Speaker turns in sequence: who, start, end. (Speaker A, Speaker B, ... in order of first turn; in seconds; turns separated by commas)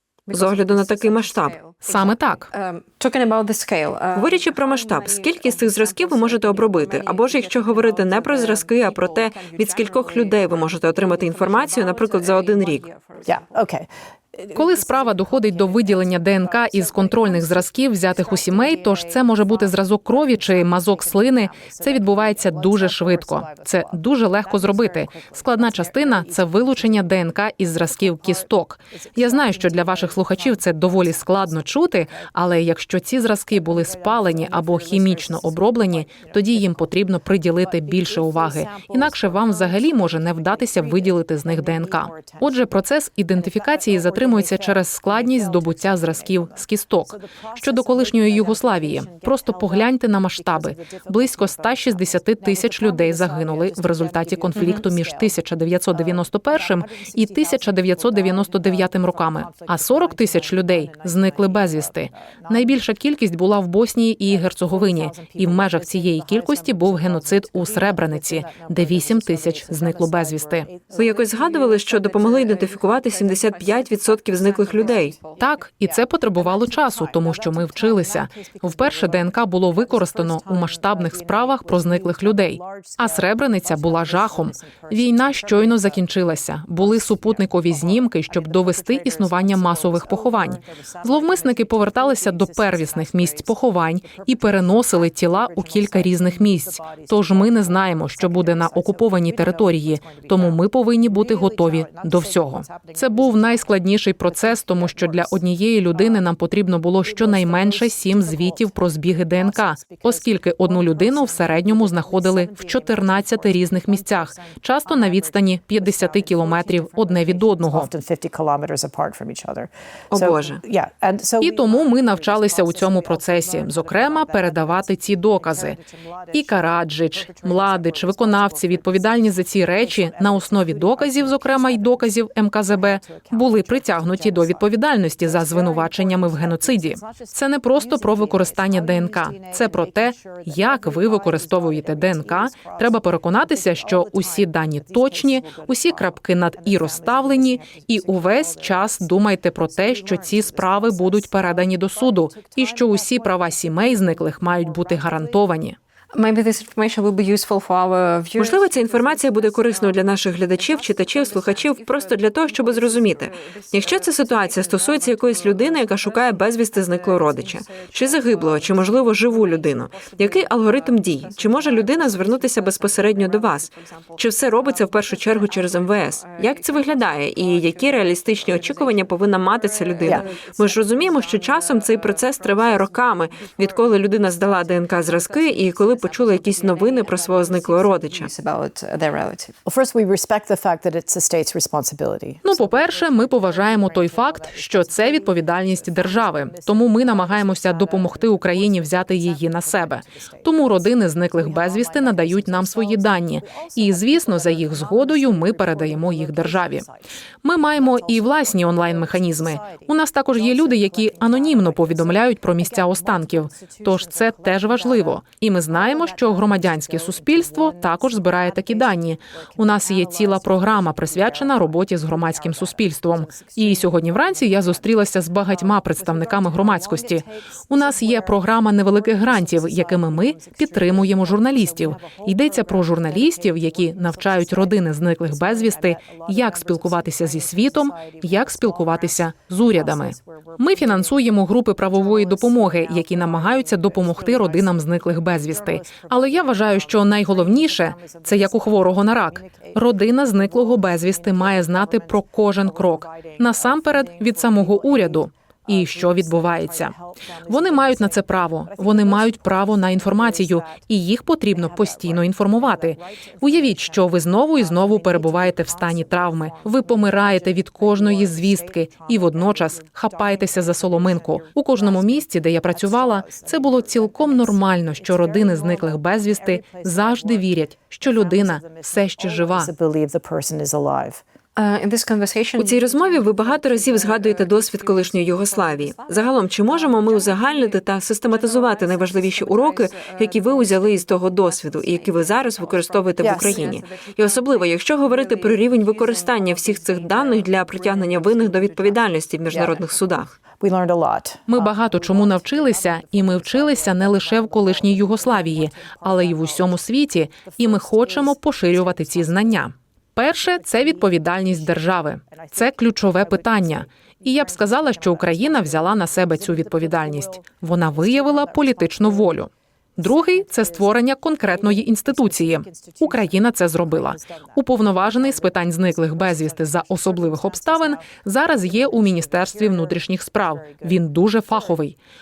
Speaker A: 0.3-13.5, Speaker B: 0.3-1.6, Speaker C: 1.8-2.5, Speaker B: 4.1-12.9, Speaker D: 13.2-32.4, Speaker C: 14.5-70.7, Speaker D: 33.5-42.8, Speaker D: 43.3-62.8, Speaker D: 64.2-71.4, Speaker B: 70.9-75.2, Speaker A: 71.7-75.4, Speaker D: 72.8-73.9, Speaker D: 74.4-106.4, Speaker C: 75.4-117.9, Speaker D: 107.0-155.6, Speaker B: 120.1-120.6, Speaker C: 121.4-125.8, Speaker C: 126.3-155.8, Speaker A: 156.1-158.7, Speaker B: 158.4-188.3, Speaker D: 158.8-159.6, Speaker A: 159.7-183.8, Speaker D: 180.0-180.3, Speaker A: 185.0-189.6, Speaker D: 185.2-185.7, Speaker D: 189.7-207.0, Speaker C: 192.4-206.8, Speaker C: 207.4-256.9, Speaker D: 207.7-260.9, Speaker C: 257.5-279.7, Speaker D: 261.5-281.2, Speaker A: 281.6-299.8, Speaker B: 282.6-300.3, Speaker D: 293.2-293.8, Speaker D: 300.6-306.8, Speaker C: 301.5-332.0, Speaker D: 307.4-309.7, Speaker D: 310.3-319.5, Speaker D: 320.0-331.9